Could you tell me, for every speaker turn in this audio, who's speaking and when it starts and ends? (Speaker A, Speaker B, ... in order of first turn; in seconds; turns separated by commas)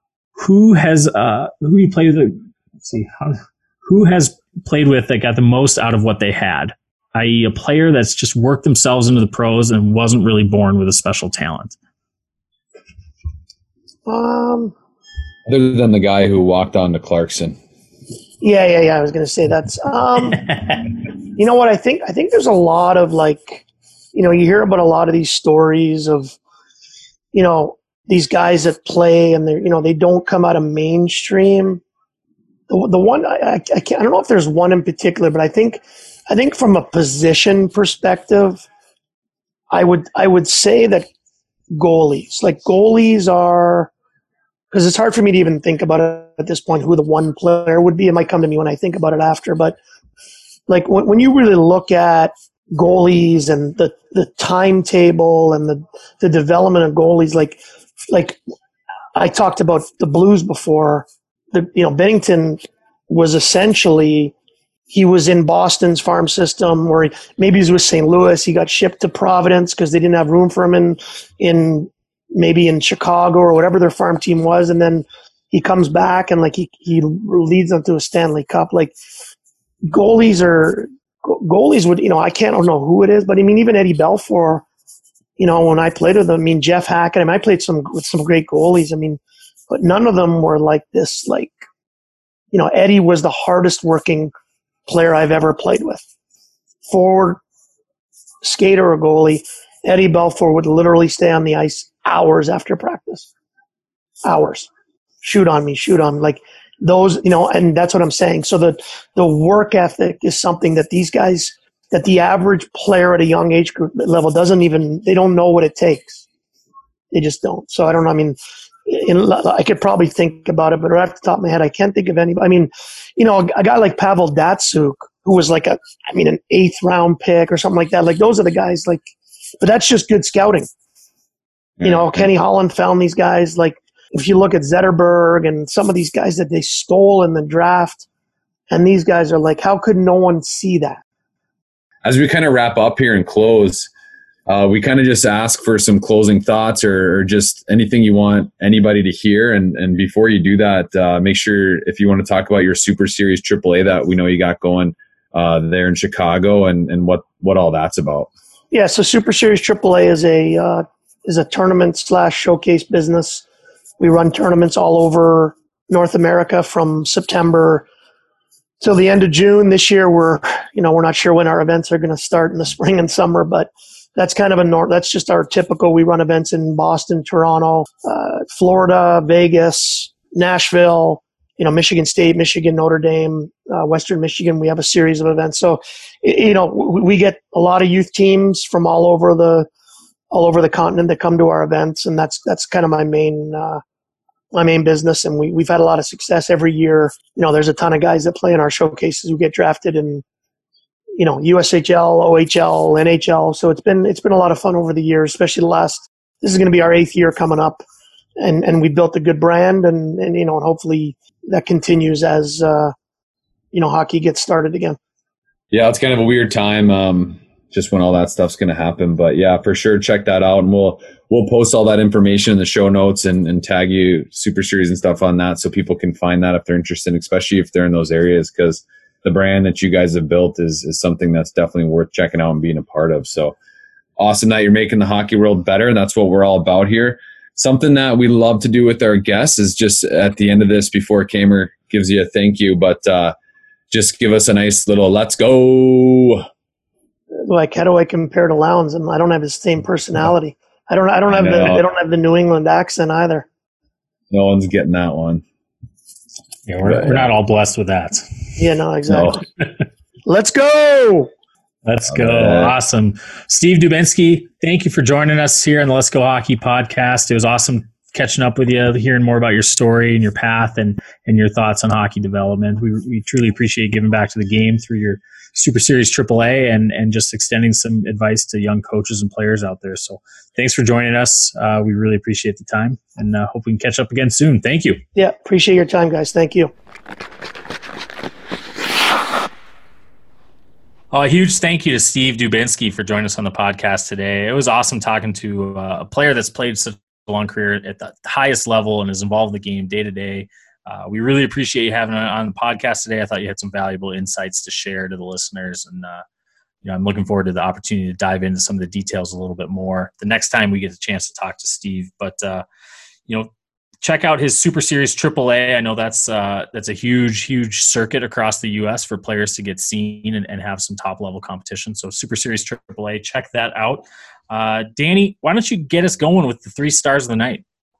Speaker A: 0.3-11.8, Speaker B: 14.1-14.7, Speaker C: 15.5-17.6, Speaker B: 18.4-20.4, Speaker B: 21.4-26.4, Speaker B: 27.3-31.8, Speaker B: 32.7-38.6, Speaker B: 39.7-41.1, Speaker B: 41.7-43.9, Speaker B: 44.7-49.8, Speaker B: 50.7-57.6, Speaker B: 58.1-58.4, Speaker B: 59.1-64.3, Speaker B: 64.9-78.9, Speaker B: 79.9-84.6, Speaker B: 85.4-91.5, Speaker B: 92.5-94.3, Speaker B: 94.9-96.0, Speaker B: 96.9-97.4, Speaker B: 98.4-103.3, Speaker B: 104.2-104.7, Speaker B: 105.2-116.2, Speaker B: 117.1-129.1, Speaker B: 129.6-130.7, Speaker C: 131.8-132.2, Speaker B: 131.8-138.1, Speaker B: 138.7-141.0, Speaker C: 142.0-143.9, Speaker C: 144.5-158.3, Speaker B: 158.7-163.4, Speaker B: 164.0-167.8, Speaker B: 168.8-189.7, Speaker B: 190.3-193.8, Speaker B: 194.5-200.2, Speaker B: 201.2-207.8, Speaker B: 208.4-212.9, Speaker B: 213.7-215.0, Speaker C: 215.7-233.6, Speaker C: 234.2-243.3, Speaker C: 243.9-246.4, Speaker B: 247.4-253.4, Speaker C: 251.3-251.8, Speaker C: 254.3-255.4, Speaker A: 256.7-258.2, Speaker C: 256.8-257.3, Speaker B: 258.6-259.4, Speaker C: 259.1-259.4, Speaker B: 260.2-261.3, Speaker A: 261.8-285.0, Speaker C: 262.1-262.7, Speaker B: 285.1-286.7, Speaker A: 291.1-306.2, Speaker A: 306.8-312.6, Speaker A: 314.0-327.6